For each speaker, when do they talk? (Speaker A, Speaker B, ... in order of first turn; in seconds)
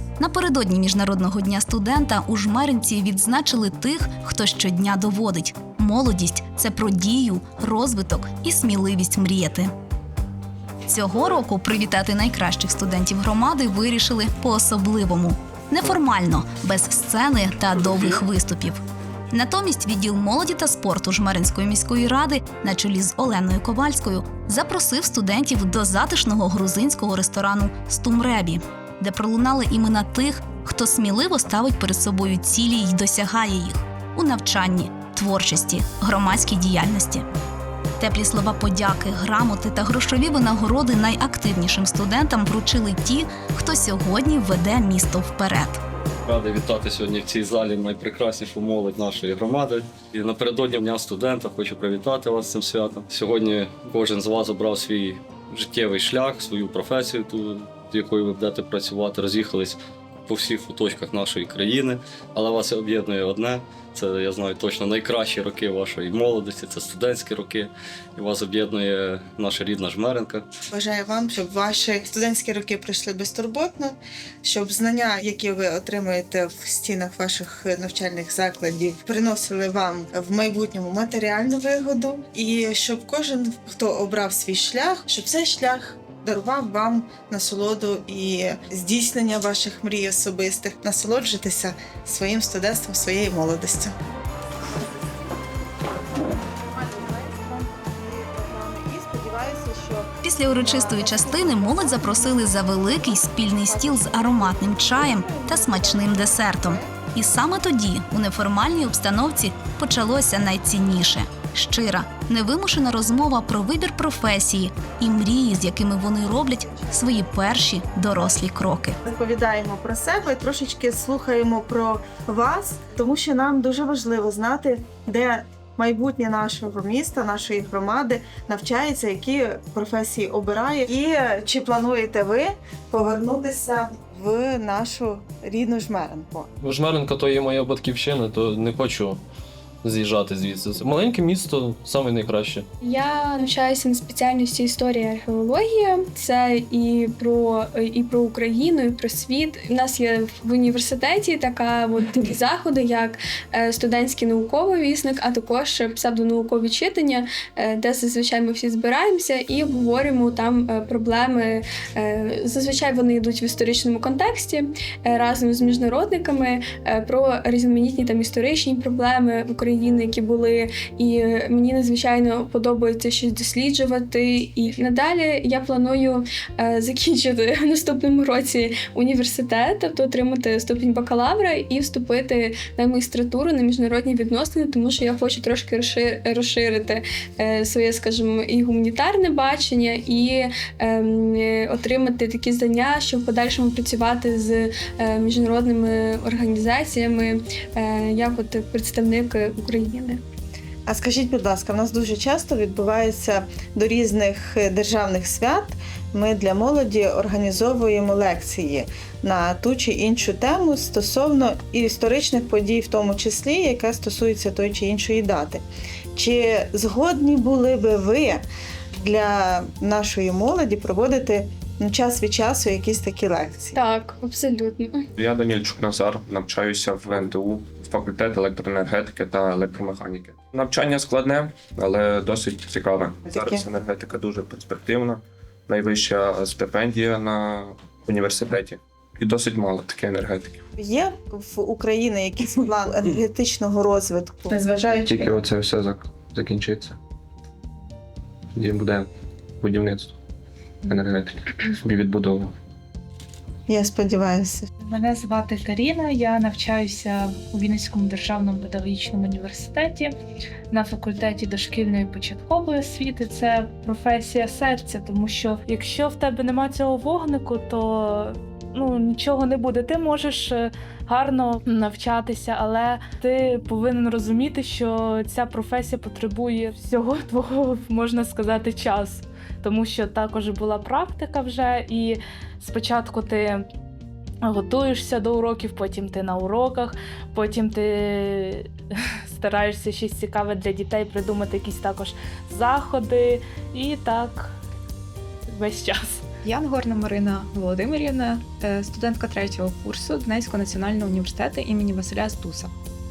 Speaker A: 0.2-9.7, 10.9-18.8, 19.3-37.3, 38.0-45.8, 100.2-119.0
Speaker B: 46.3-70.5
Speaker C: 70.7-94.0, 96.4-107.0, 119.0-136.5, 200.9-215.6, 216.2-218.4, 219.0-223.8, 233.3-233.6, 240.8-245.3, 253.7-254.7
Speaker D: 136.6-139.2, 139.8-142.7
Speaker E: 142.8-200.2, 223.8-225.1
Speaker F: 225.2-240.6, 245.1-247.0, 248.6-249.1, 249.6-250.1, 250.9-252.5
Speaker G: 254.9-260.1, 260.7-283.6, 284.4-288.7, 289.3-294.6, 295.5-296.2
Speaker H: 296.4-302.7